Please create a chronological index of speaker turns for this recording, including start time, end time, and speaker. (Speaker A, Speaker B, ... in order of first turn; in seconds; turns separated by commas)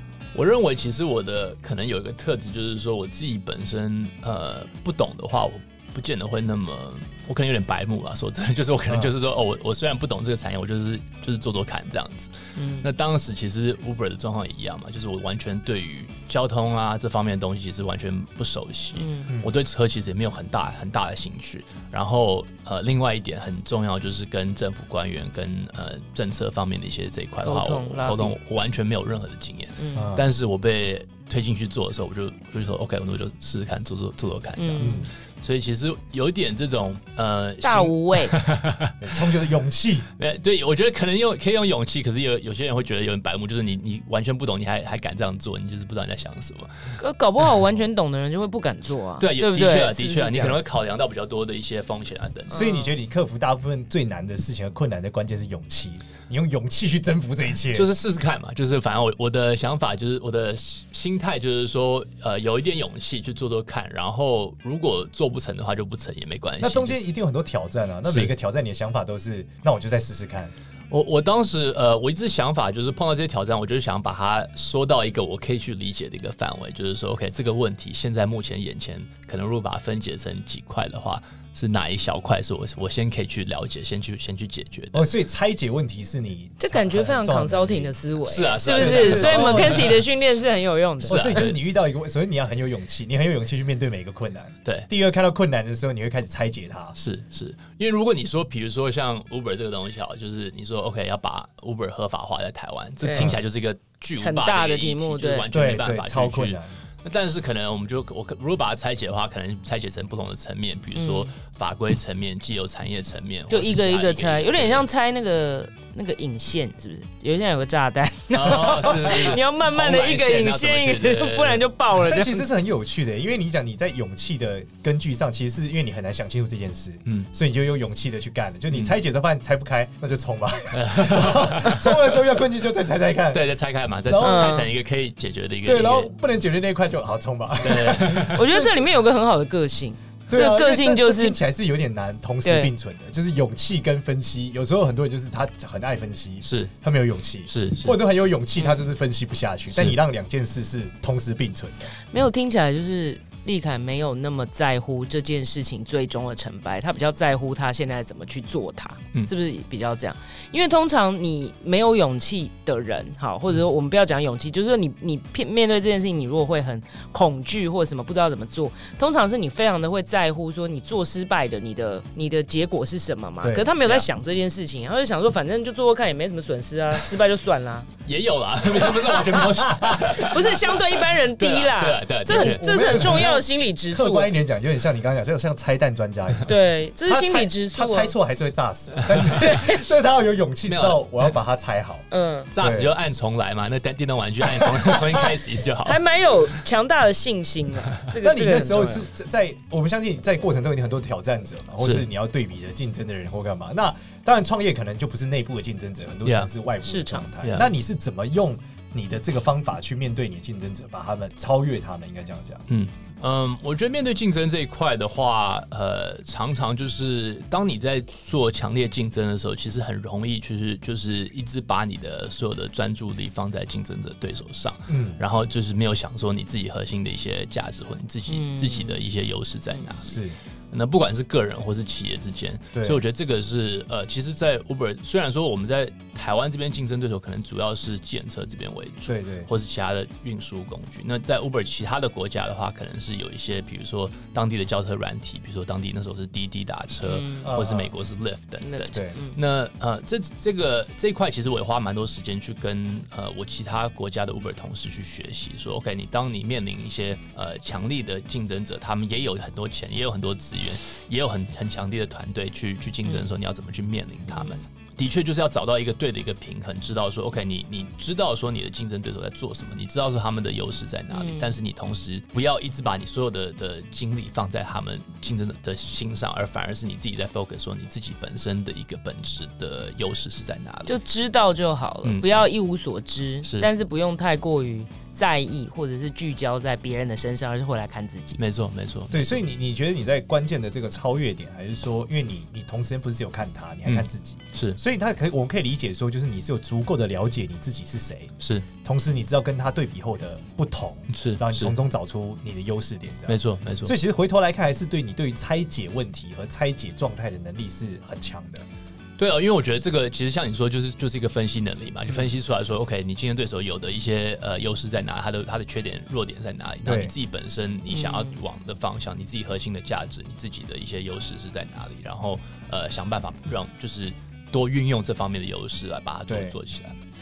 Speaker A: 0.3-38.9, Speaker B: 12.6-12.8, Speaker B: 18.9-19.3, Speaker B: 27.4-28.4, Speaker B: 29.8-30.2, Speaker C: 29.9-30.3, Speaker B: 34.6-35.0, Speaker C: 34.8-35.1, Speaker B: 37.6-38.3, Speaker C: 39.0-40.0, Speaker A: 40.2-47.0, Speaker B: 47.0-50.6, Speaker A: 49.2-52.7, Speaker B: 52.5-52.9, Speaker C: 52.5-57.9, Speaker A: 57.7-67.0, Speaker C: 66.6-70.5, Speaker A: 68.0-68.3, Speaker A: 70.9-85.1, Speaker C: 84.9-87.9, Speaker B: 86.6-91.4, Speaker A: 88.3-90.0, Speaker C: 88.8-90.0, Speaker A: 91.0-91.6, Speaker C: 91.1-97.0, Speaker A: 94.6-94.9, Speaker A: 97.0-114.9, Speaker B: 103.0-103.3, Speaker B: 104.2-105.5, Speaker C: 105.5-106.7, Speaker B: 111.0-111.3, Speaker B: 113.5-122.5, Speaker A: 118.3-121.6, Speaker C: 122.0-133.4, Speaker A: 128.7-129.0, Speaker A: 130.7-132.2, Speaker A: 133.3-136.1, Speaker C: 134.1-134.6, Speaker B: 134.2-134.7, Speaker C: 135.6-138.7, Speaker A: 137.6-138.4, Speaker B: 138.3-141.3, Speaker C: 140.3-151.8, Speaker B: 142.4-142.7, Speaker A: 146.4-146.7, Speaker A: 147.5-148.0, Speaker A: 149.7-150.0, Speaker B: 152.1-177.9, Speaker C: 173.4-173.7, Speaker A: 178.0-183.3, Speaker C: 178.8-180.1, Speaker B: 180.1-184.3, Speaker C: 182.3-186.5, Speaker B: 186.4-188.1, Speaker C: 187.0-192.0, Speaker A: 189.0-189.6, Speaker B: 189.3-189.8, Speaker A: 190.7-191.0, Speaker B: 192.1-192.5, Speaker A: 192.5-196.0, Speaker C: 192.6-192.9, Speaker C: 194.4-195.3, Speaker B: 195.8-199.1, Speaker C: 198.2-212.6, Speaker A: 206.2-206.5, Speaker B: 206.8-207.6, Speaker A: 207.4-207.7, Speaker A: 212.7-281.0, Speaker C: 224.9-225.2, Speaker B: 228.3-229.0, Speaker C: 230.0-230.3, Speaker C: 232.7-233.0, Speaker C: 239.1-239.5, Speaker B: 247.0-247.5, Speaker C: 247.4-247.9, Speaker B: 248.6-249.4, Speaker B: 263.0-263.3, Speaker B: 264.3-264.6, Speaker B: 271.1-271.5, Speaker B: 280.9-288.4, Speaker A: 282.0-282.4, Speaker A: 288.4-289.4, Speaker C: 289.1-308.6, Speaker A: 293.9-294.8, Speaker A: 298.4-298.7, Speaker A: 301.1-301.7, Speaker A: 303.3-303.9, Speaker A: 309.2-326.9, Speaker C: 316.8-317.1, Speaker B: 317.9-318.4, Speaker C: 326.3-326.6